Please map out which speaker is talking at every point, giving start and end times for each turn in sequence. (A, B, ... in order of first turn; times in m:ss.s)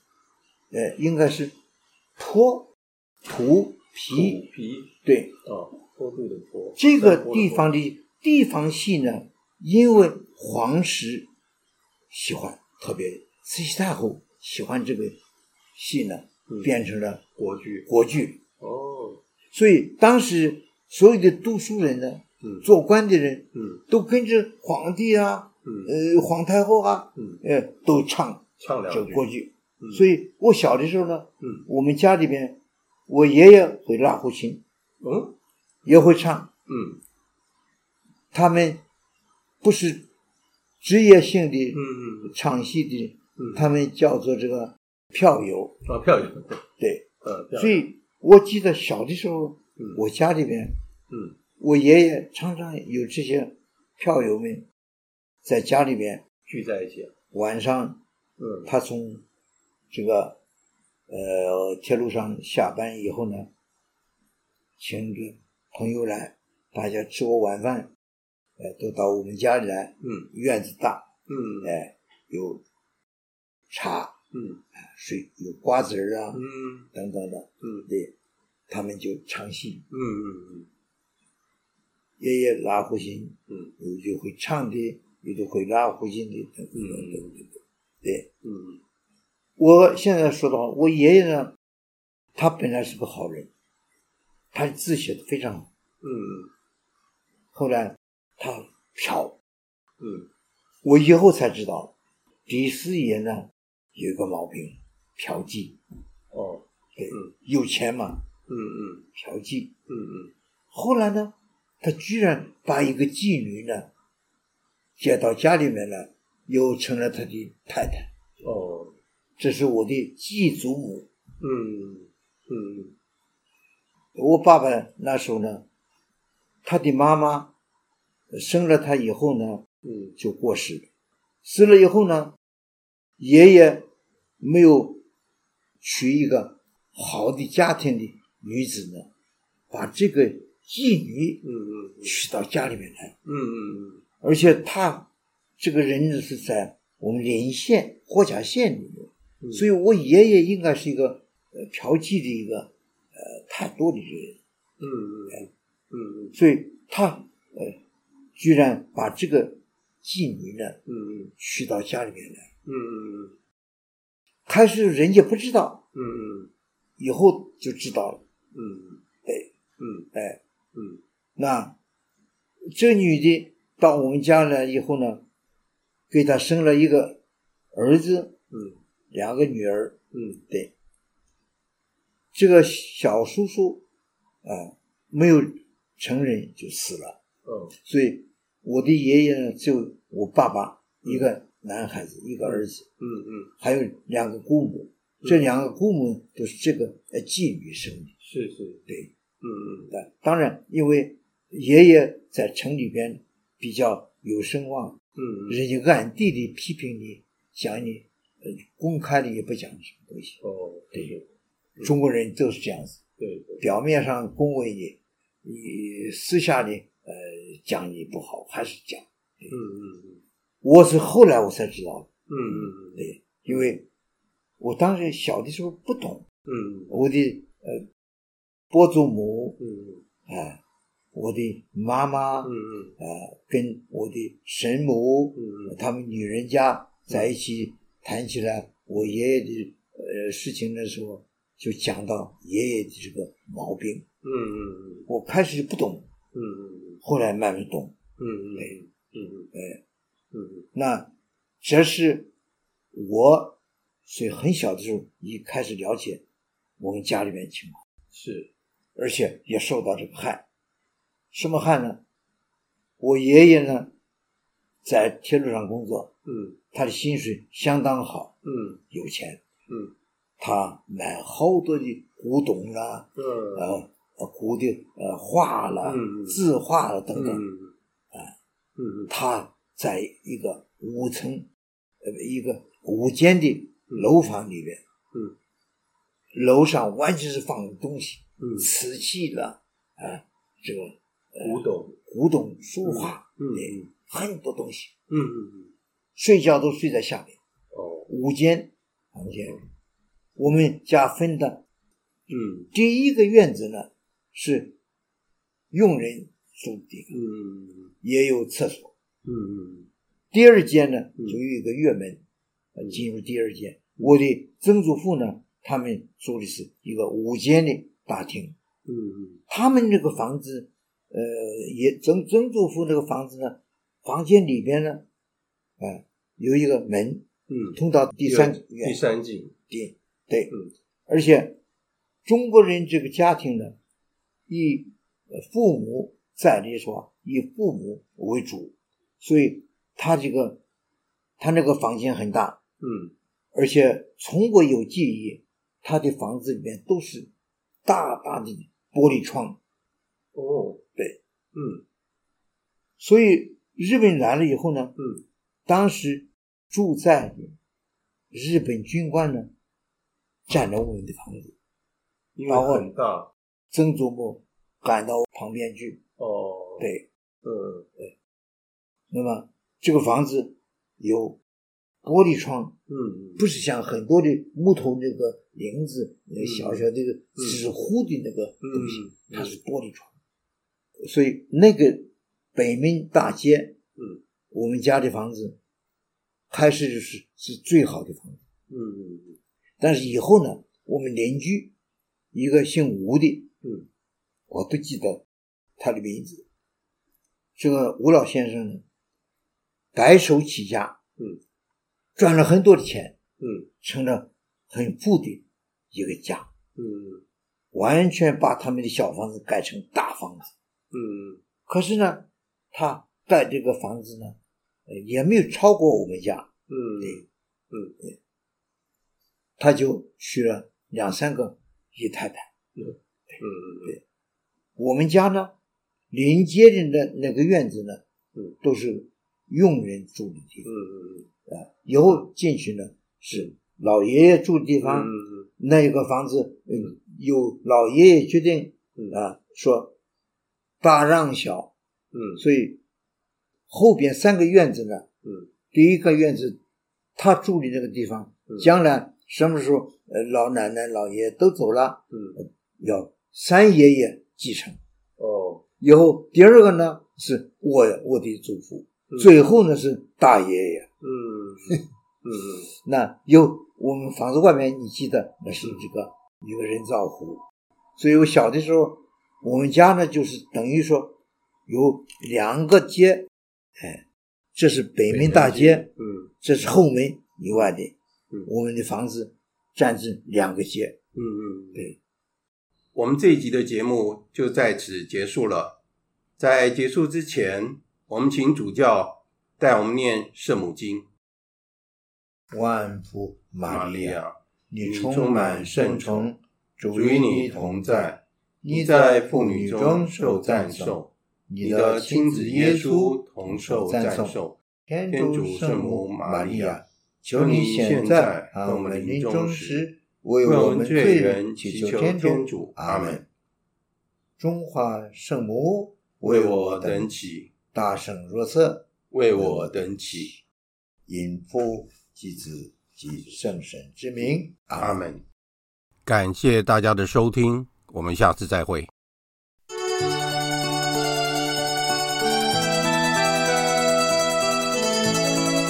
0:00.7-0:01.5 A
0:02.2-0:02.7 A
0:03.2-0:04.4 A
0:04.1-0:04.9 B
0:05.0-0:05.4 A
0:05.4-0:07.7 B
0:06.8-0:11.3 A
0:12.1-0:15.2 A
0:15.8-0:17.2 A
0:16.5-0:16.7 B
0:17.4-0:17.9 B
0:17.9-0:18.4 A
0:18.6-0:19.2 B
0:19.5-0:34.6 A
0:22.4-0:22.7 B
0:23.6-0:23.8 B
0:25.6-0:25.9 B
0:28.6-0:30.0 B
0:31.4-0:31.7 B
0:35.0-0:35.4 B
0:35.8-0:36.5 A
0:36.7-0:37.0 B
0:38.3-0:38.8 A
0:39.6-0:40.1 A
0:40.8-0:45.8 A
0:41.7-0:42.4 B
0:43.4-0:43.7 B
0:45.9-0:46.6 B
0:46.8-0:50.8 A
0:47.2-0:47.8 B
0:49.8-0:50.0 B
0:51.1-0:51.4 B
0:51.6-0:54.7 A
0:55.4-0:56.2 A
0:56.5-0:57.1 B
0:57.3-0:58.0 A
0:58.4-0:58.7 B
0:58.7-0:59.2 A
0:59.9-1:00.4 A
1:01.1-1:03.5 A
1:04.8-1:07.9 A
1:08.6-1:12.6 A
1:10.0-1:10.3 B
1:11.3-1:11.8 B
1:13.7-1:14.2 A
1:14.3-1:14.6 B
1:14.8-1:18.1 A
1:16.3-1:16.9 B
1:17.6-1:17.9 B
1:18.7-1:19.9 A
1:19.9-1:20.7 B
1:22.2-1:27.4 A
1:26.7-1:27.5 B
1:28.0-1:28.3 A
1:28.4-1:28.8 B
1:29.6-1:31.6 A
1:32.4-1:33.5 A
1:34.5-1:35.7 A
1:36.0-1:36.5 B
1:37.5-1:39.4 A
1:40.0-1:40.3 B
1:40.8-1:41.9 A
1:42.5-1:45.8 A
1:46.3-1:47.3 B
1:47.0-1:48.3 A
1:48.5-1:49.1 B
1:49.2-1:49.7 A
1:49.9-1:50.3 B
1:50.7-1:53.9 A
1:55.0-1:58.1 A
1:58.4-1:58.9 B
1:59.4-2:01.1 A
2:01.4-2:02.9 B
2:04.2-2:05.6 A
2:06.6-2:07.5 A
2:08.3-2:09.6 A
2:09.8-2:10.1 B
2:10.2-2:10.9 A
2:11.4-2:12.4 A
2:13.2-2:13.9 A
2:14.4-2:15.0 A
2:15.8-2:19.1 A
2:19.7-2:21.4 A
2:21.4-2:22.1 B
2:22.0-2:23.2 A
2:23.2-2:24.0 B
2:24.2-2:34.4 A
2:29.4-2:29.7 B
2:34.8-2:36.4 B
2:36.3-2:37.8 A
2:38.4-2:40.8 A
2:40.9-2:41.3 B
2:41.4-2:42.5 A
2:42.7-2:43.4 B
2:44.5-2:45.8 A
2:46.0-2:46.5 B
2:47.0-2:48.2 A
2:48.5-2:49.0 B
2:49.8-2:50.1 B
2:50.1-2:50.4 A
2:50.7-2:51.0 B
2:51.4-2:51.8 A
2:52.7-2:55.2 A
2:56.1-2:57.2 A
2:57.7-2:58.4 A
2:58.5-2:58.8 B
2:59.1-3:00.7 A
3:00.1-3:00.4 B
3:02.3-3:03.8 A
3:04.4-3:07.2 A
3:07.4-3:07.8 B
3:07.8-3:12.9 A
3:11.0-3:11.3 B
3:12.4-3:13.5 B
3:13.6-3:18.1 A
3:18.2-3:18.8 B
3:19.4-3:19.9 B
3:19.9-3:30.4 A
3:25.2-3:25.6 B
3:30.4-3:31.2 B
3:31.8-3:33.0 A
3:33.2-3:33.6 B
3:33.6-3:39.5 A
3:39.5-3:40.2 B
3:40.6-3:43.9 A
3:42.3-3:43.7 B
3:44.6-3:46.3 A
3:46.5-3:47.0 B
3:46.9-3:47.9 A
3:48.7-3:49.6 A
3:49.6-3:50.0 B
3:50.3-3:50.6 A
3:51.1-4:04.1 A
3:52.4-3:53.0 B
3:55.4-3:55.8 B
4:04.2-4:05.1 B
4:05.1-4:06.1 A
4:06.3-4:07.0 B
4:07.0-4:08.0 A
4:08.2-4:09.5 B
4:09.5-4:09.8 A
4:10.3-4:10.7 B
4:10.7-4:11.1 A
4:11.6-4:12.3 A
4:12.9-4:16.2 A
4:16.8-4:17.8 A
4:18.1-4:18.5 B
4:19.0-4:20.4 A
4:21.3-4:22.0 A
4:23.0-4:23.9 A
4:24.8-4:26.1 A
4:26.3-4:26.6 B
4:26.7-4:28.4 A
4:28.4-4:28.8 B
4:28.9-4:29.4 A
4:30.4-4:37.4 A
4:33.2-4:33.8 B
4:35.8-4:36.4 B
4:37.1-4:37.7 B
4:38.8-4:39.1 B
4:39.1-4:41.5 A
4:42.0-4:44.8 A
4:46.3-4:54.9 A
4:48.4-4:48.7 B
4:51.4-4:52.0 B
4:52.8-4:53.9 B
4:55.1-4:55.7 B
4:56.2-4:57.4 A
4:57.7-4:58.1 B
4:58.1-4:59.6 A
5:00.4-5:01.6 A
5:02.3-5:02.7 B
5:02.7-5:04.8 A
5:05.7-5:07.1 A
5:07.1-5:07.9 B
5:08.0-5:08.9 A
5:09.2-5:09.9 B
5:10.3-5:12.2 A
5:12.8-5:18.6 A
5:18.9-5:19.4 B
5:19.5-5:25.0 A
5:25.8-5:29.0 A
5:27.5-5:29.5 B
5:29.7-5:30.5 A
5:31.1-5:31.6 A
5:32.2-5:33.8 A
5:34.5-5:40.6 A
5:41.4-5:42.6 A
5:42.8-5:43.1 B
5:43.5-5:47.3 A
5:47.8-5:49.6 A
5:50.3-5:50.8 B
5:51.5-5:51.8 B
5:53.0-5:54.9 A
5:55.0-5:55.2 B
5:55.7-5:57.6 A
5:58.3-5:59.5 A
6:00.5-6:01.5 A
6:02.4-6:03.3 B
6:02.5-6:02.9 A
6:03.7-6:06.0 A
6:06.2-6:06.9 B
6:06.8-6:07.1 A
6:07.4-6:07.9 B
6:09.1-6:11.4 A
6:12.0-6:12.8 A
6:12.9-6:13.4 B
6:13.4-6:20.1 A
6:16.4-6:17.6 B
6:18.6-6:19.5 B
6:21.0-6:23.8 A
6:24.5-6:25.6 A
6:26.5-6:28.4 A
6:28.7-6:29.4 B
6:29.8-6:31.7 A
6:32.3-6:33.5 A
6:34.5-6:35.2 A
6:35.8-6:36.4 A
6:37.6-6:38.8 A
6:39.9-6:41.0 A
6:42.2-6:43.2 A
6:43.4-6:43.7 B
6:43.8-6:46.5 A
6:46.8-6:47.2 B
6:47.7-6:50.5 A
6:50.9-6:51.4 B
6:51.7-6:56.5 A
6:56.7-6:58.0 B
6:59.6-7:02.5 A
7:02.8-7:04.0 B
7:04.8-7:05.5 A
7:06.1-7:08.0 A
7:08.6-7:10.7 A
7:10.6-7:11.3 B
7:11.5-7:20.0 A
7:14.8-7:15.5 B
7:20.8-7:21.7 A
7:22.1-7:22.4 B
7:22.4-7:22.8 A
7:23.7-7:25.1 A
7:25.2-7:25.5 B
7:25.7-7:26.6 A
7:27.2-7:32.0 A
7:32.1-7:32.4 B
7:32.8-7:34.8 A
7:35.2-7:35.6 B
7:35.8-7:40.9 A
7:41.0-7:42.7 B
7:42.8-7:47.4 A
7:48.0-7:54.0 A
7:54.6-7:55.9 A
7:55.1-7:56.3 B
7:56.4-8:01.0 A
8:01.2-8:02.0 B
8:03.0-8:05.8 C
8:06.4-8:11.1 C
8:12.5-8:33.3 A
8:13.7-8:16.3 C
8:16.9-8:18.2 C
8:18.7-8:21.1 C
8:21.6-8:24.5 C
8:25.1-8:26.0 B
8:25.6-8:26.8 C
8:27.4-8:28.4 B
8:28.0-8:29.8 C
8:30.5-8:33.0 B
8:31.0-8:31.8 C
8:32.4-8:33.2 C
8:34.4-8:37.2 A
8:36.3-8:37.5 C
8:37.7-8:40.4 A
8:39.1-8:40.3 C
8:41.1-8:45.1 A
8:44.8-8:45.2 C
8:46.1-8:48.9 C